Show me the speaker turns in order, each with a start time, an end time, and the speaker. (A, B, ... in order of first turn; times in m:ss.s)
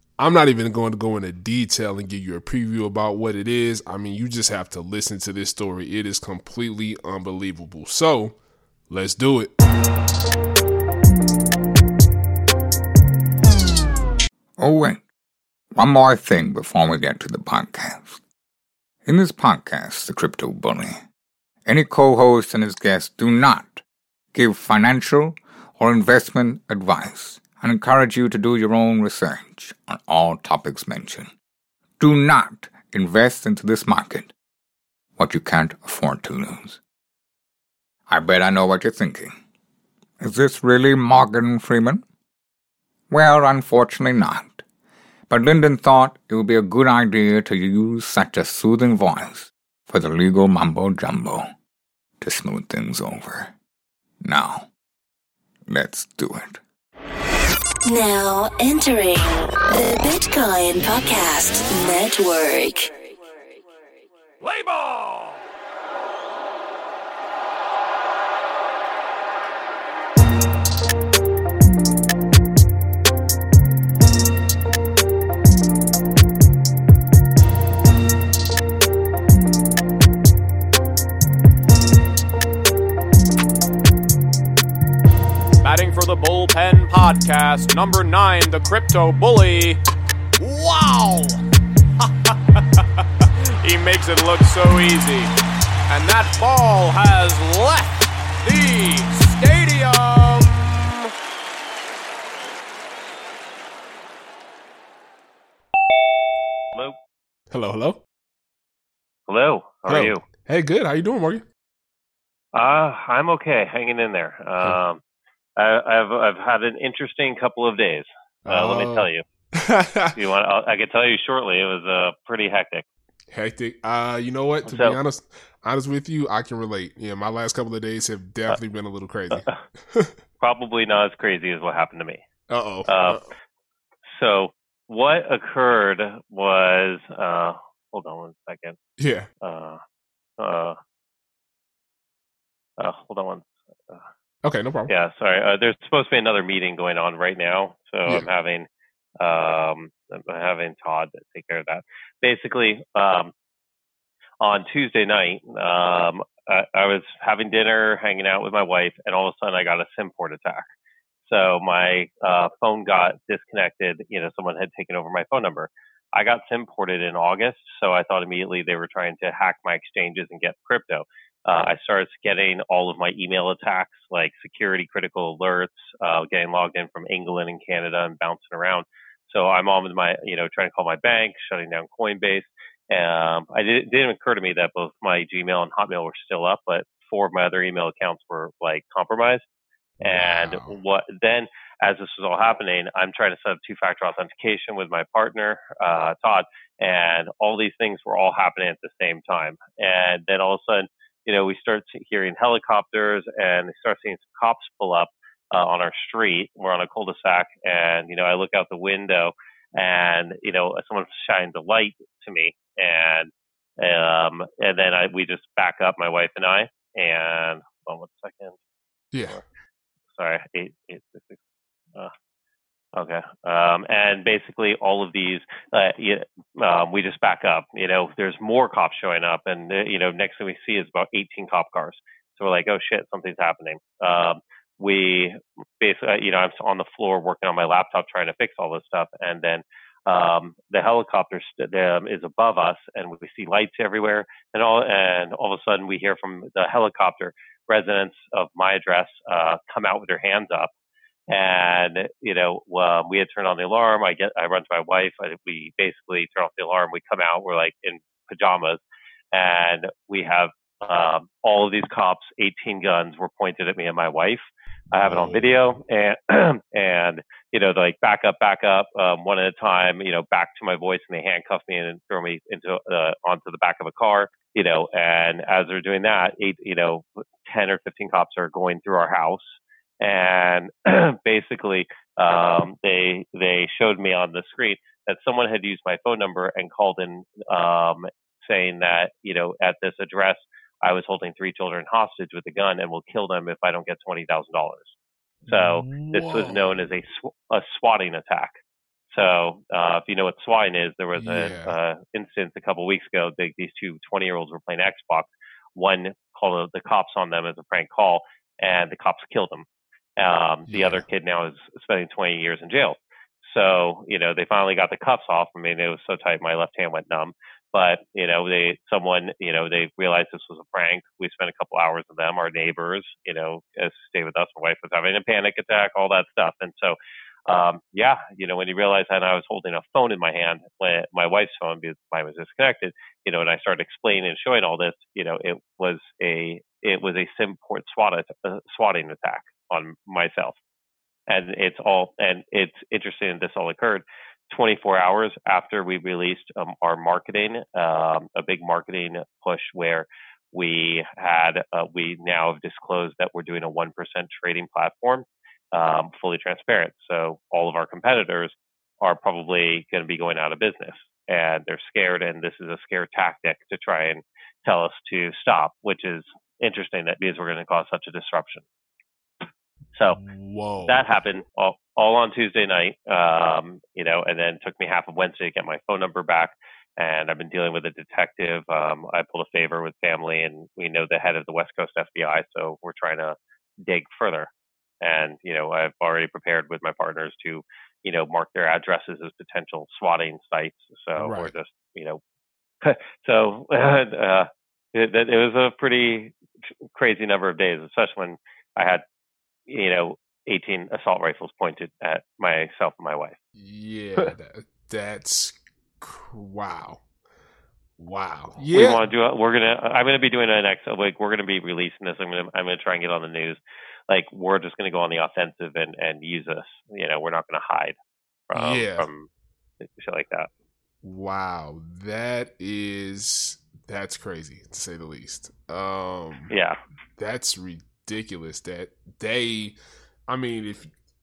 0:00.2-0:08.4 A
0:08.9-0:09.5 A
0:14.6-0:15.0 B
0:15.7-0:18.2 B
0:19.0-0:21.0 B
0:21.6-0:23.8 B
0:24.3-0:31.3 B
0:32.0-0:34.3 B
0:35.2-0:36.8 B
0:38.1-0:39.4 B
0:40.2-0:42.0 B
0:43.1-0:44.6 B
0:45.3-0:51.5 B
0:52.2-0:53.5 B
0:54.2-0:54.7 B
0:55.7-0:56.6 B
0:57.8-1:02.9 C
1:25.6-1:29.8 D
1:30.4-1:31.4 D
1:32.0-1:35.3 D
1:35.9-1:41.1 D
1:47.5-1:48.0 A
1:49.3-1:50.2 E
1:49.9-1:51.4 A
1:52.5-1:55.0 E
1:55.6-1:59.2 E
1:58.4-2:00.2 A
2:00.1-2:02.8 E
2:03.3-2:10.1 A
2:04.7-2:05.0 E
2:09.3-2:09.6 E
2:10.4-2:12.2 E
2:12.5-2:13.2 A
2:12.9-2:13.2 E
2:14.0-2:18.8 E
2:19.0-2:19.3 A
2:19.4-2:19.8 E
2:20.4-2:20.8 E
2:22.8-2:24.0 E
2:24.4-2:24.9 A
2:24.9-2:28.7 E
2:29.2-2:33.3 E
2:34.4-2:40.7 E
2:41.2-3:09.4 E
3:10.0-3:10.8 A
3:10.0-3:38.6 E
3:39.1-3:39.4 A
3:40.2-3:41.4 E
3:42.9-4:10.7 E
4:11.3-4:55.0 E
4:25.0-4:25.6 A
4:55.5-4:56.8 A
4:55.5-4:58.6 E
4:59.1-5:09.7 E
5:01.2-5:01.8 A
5:10.2-5:40.6 E
5:10.7-5:11.0 A
5:41.3-6:08.6 E
6:10.0-6:10.2 E
6:10.1-6:11.0 A
6:10.9-6:24.5 E
6:25.0-6:32.2 E
6:31.2-6:31.5 A
6:32.8-6:36.4 E
6:36.9-6:39.0 E
6:39.7-6:43.4 E
6:43.6-6:47.0 A
6:48.0-6:49.0 A
6:48.7-6:58.0 E
6:58.5-6:59.3 E
6:58.6-6:59.1 A
6:59.8-7:00.5 E
7:01.0-7:06.5 A
7:06.5-7:06.8 E
7:07.2-7:09.8 A
7:10.3-7:10.9 A